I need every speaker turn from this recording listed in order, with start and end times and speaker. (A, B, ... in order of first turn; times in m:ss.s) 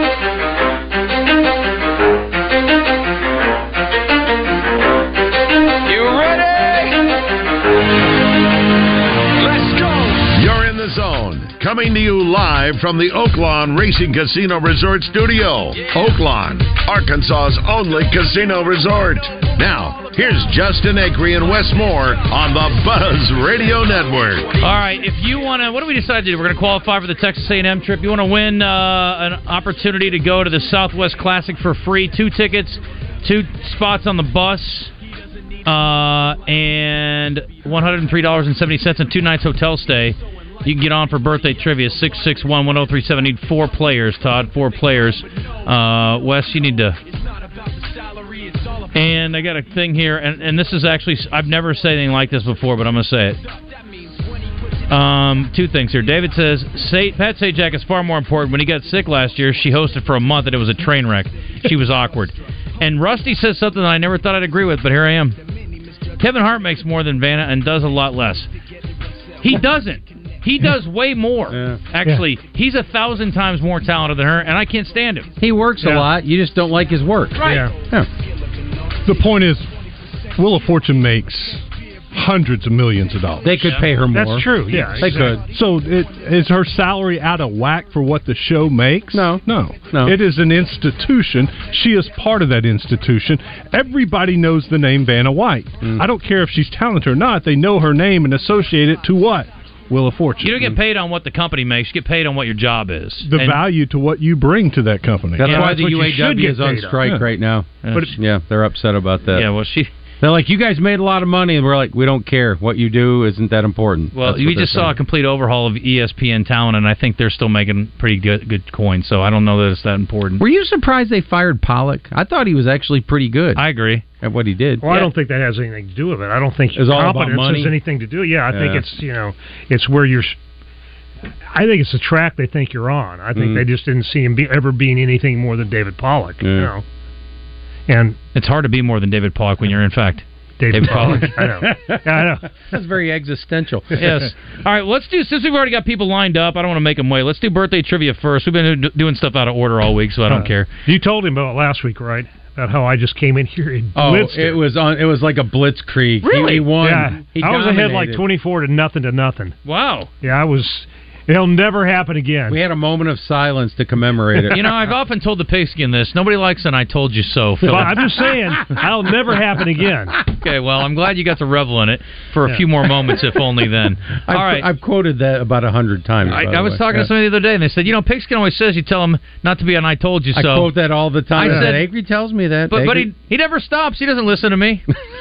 0:05.9-0:06.9 A
0:09.4-0:24.6 A
0:24.6-0:34.9 B
0:35.7-0:47.0 B
0:48.9-0:53.4 B
0:54.9-1:05.4 B
1:06.2-1:08.5 B
1:09.4-1:15.3 B
1:11.5-1:11.8 C
1:15.4-1:18.1 C
1:15.8-1:16.1 D
1:17.4-1:17.7 D
1:19.1-1:19.7 E
1:20.4-1:23.7 E
1:23.4-1:25.4 C
1:23.6-1:23.9 B
1:24.1-1:25.4 D
1:25.1-1:40.7 E
1:29.1-1:30.2 C
1:40.4-1:43.6 B
1:43.2-1:45.8 E
1:45.4-1:49.5 C
1:45.4-1:47.0 D
1:45.5-1:45.7 B
1:47.8-1:48.1 B
1:49.3-1:49.9 B
1:50.2-1:55.0 C
1:54.1-2:00.4 B
2:00.4-2:03.6 C
2:03.6-2:04.0 B
2:04.2-2:04.8 C
2:04.8-2:10.3 D
2:06.8-2:07.7 C
2:08.5-2:08.8 C
2:11.5-2:16.8 D
2:13.3-2:13.6 C
2:16.4-2:16.7 C
2:17.9-2:18.2 D
2:18.3-2:21.3 B
2:20.6-2:22.5 D
2:21.6-2:24.0 C
2:23.9-2:30.7 B
2:30.3-2:34.6 D
2:33.9-2:38.2 C
2:36.2-2:36.7 B
2:36.8-2:39.6 D
2:39.6-2:40.1 B
2:40.2-2:42.6 D
2:42.5-2:44.7 C
2:44.5-2:48.0 B
2:47.7-2:50.2 D
2:50.4-2:54.7 B
2:54.3-2:57.1 C
2:56.3-3:00.7 B
3:00.3-3:03.1 C
3:01.3-3:01.8 B
3:01.4-3:01.7 D
3:02.7-3:04.8 B